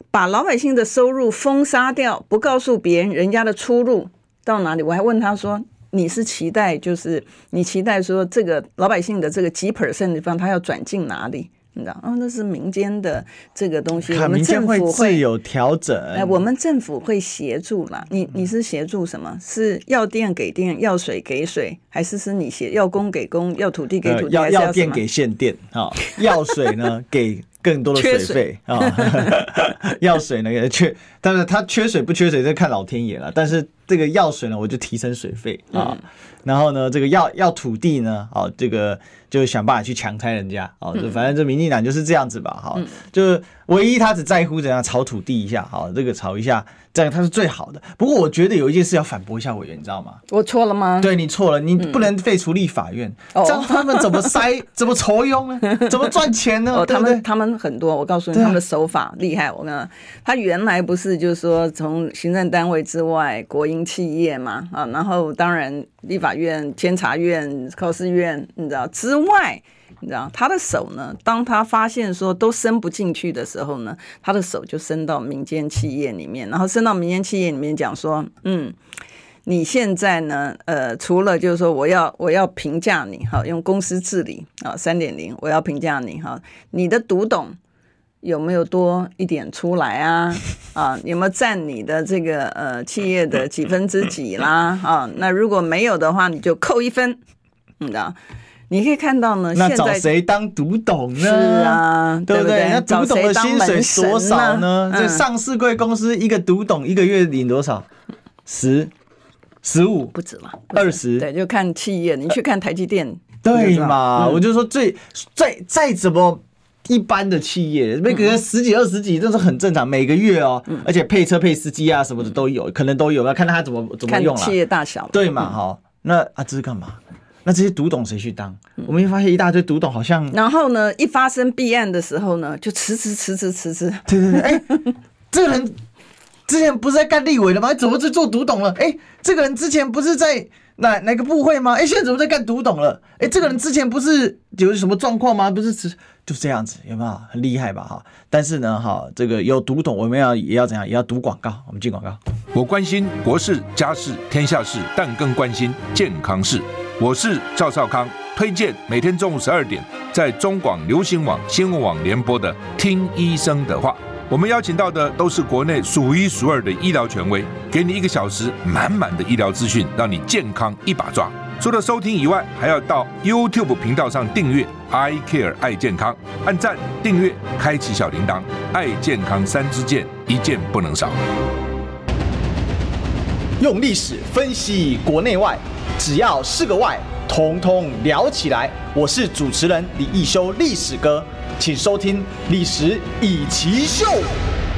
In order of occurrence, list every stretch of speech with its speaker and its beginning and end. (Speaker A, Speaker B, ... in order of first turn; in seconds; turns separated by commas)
Speaker A: 0.1-15.2, Speaker B: 14.1-16.4, Speaker A: 16.1-25.0, Speaker B: 24.0-50.2, Speaker A: 26.0-26.8, Speaker A: 27.9-29.4, Speaker A: 35.7-36.0, Speaker A: 50.3-51.1, Speaker B: 51.0-57.2, Speaker A: 53.3-54.4, Speaker A: 56.7-78.8, Speaker B: 58.3-58.6, Speaker A: 79.5-87.5, Speaker A: 88.2-97.2, Speaker A: 97.8-98.2, Speaker A: 98.7-100.1, Speaker B: 99.5-107.8, Speaker A: 101.2-105.2, Speaker B: 108.5-108.9, Speaker B: 109.6-110.1, Speaker A: 110.1-114.4, Speaker B: 110.7-111.2, Speaker B: 113.4-124.5, Speaker A: 118.1-118.3, Speaker A: 124.1-125.5, Speaker B: 125.1-130.3, Speaker A: 130.3-134.9, Speaker B: 134.1-134.7, Speaker B: 135.3-135.7, Speaker B: 136.5-152.2, Speaker C: 152.5-181.2, Speaker B: 183.6-194.3